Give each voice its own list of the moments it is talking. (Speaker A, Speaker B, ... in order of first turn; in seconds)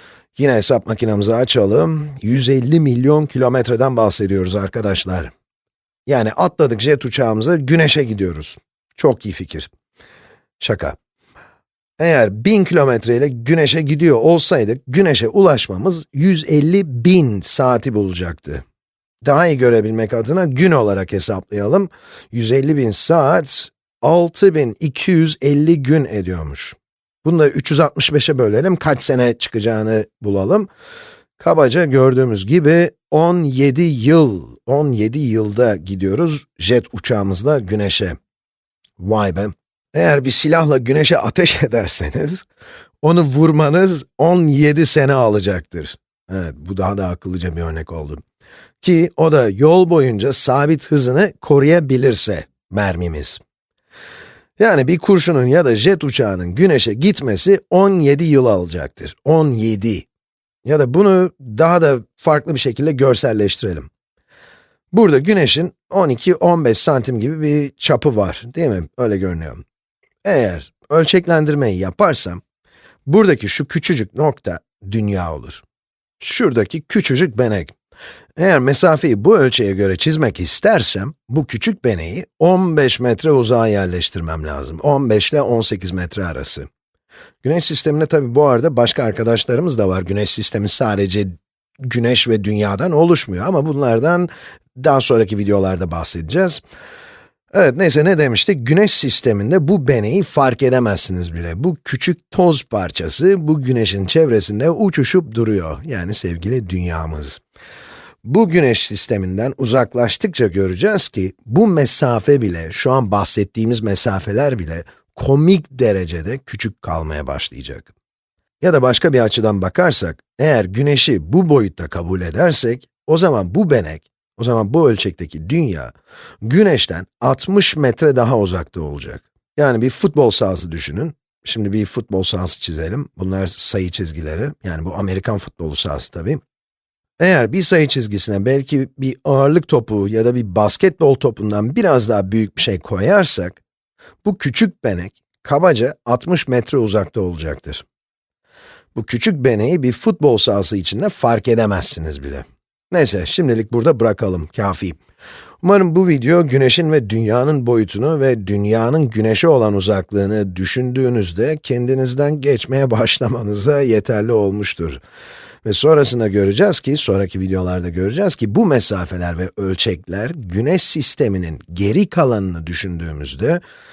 Speaker A: 0.4-5.3, 6.1-9.7, 10.6-11.0, 12.0-18.6, 19.2-30.7, 31.4-38.2, 39.0-42.5, 43.0-48.2, 48.8-53.4, 54.6-60.1, 60.6-63.9, 64.9-69.6, 70.2-72.4, 73.1-75.6, 76.2-77.7, 78.4-86.7, 87.4-91.3, 91.8-96.6, 97.5-107.4, 108.2-117.9, 118.6-136.4, 137.2-143.6, 144.2-147.8, 148.9-155.0, 155.6-165.0, 165.7-173.6